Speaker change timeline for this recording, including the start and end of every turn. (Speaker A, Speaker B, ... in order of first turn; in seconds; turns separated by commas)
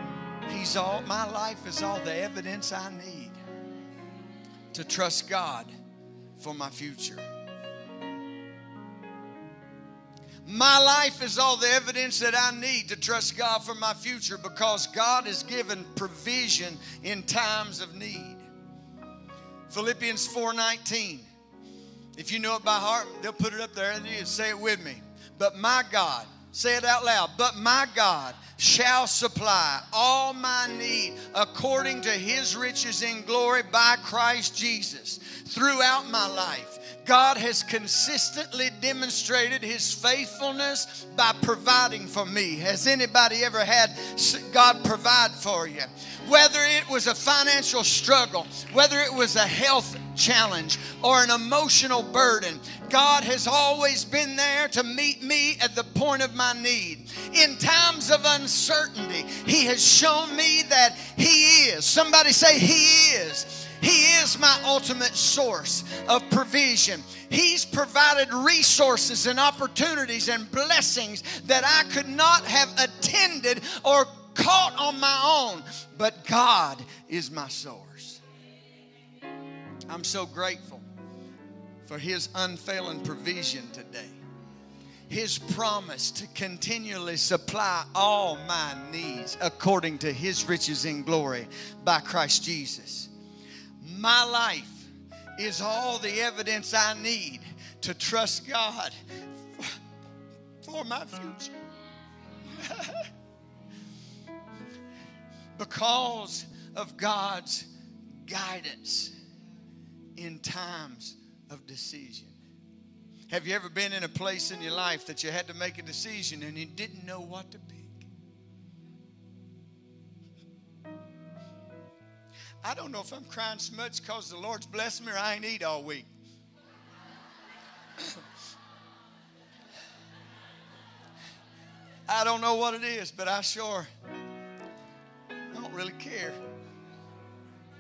Speaker A: 0.5-3.4, Speaker A: 4.7-5.7, Speaker A: 6.4-7.2, Speaker A: 10.4-18.5, Speaker A: 19.7-21.3, Speaker A: 22.1-78.2, Speaker A: 79.9-80.8, Speaker A: 81.8-84.2, Speaker A: 85.1-93.1, Speaker A: 93.8-98.9, Speaker A: 99.5-99.8, Speaker A: 100.6-101.5, Speaker A: 102.6-103.1, Speaker A: 105.6-107.7, Speaker A: 108.2-109.1, Speaker A: 110.2-112.4, Speaker A: 113.3-118.1, Speaker A: 122.6-126.1, Speaker A: 132.1-133.9, Speaker A: 135.5-136.4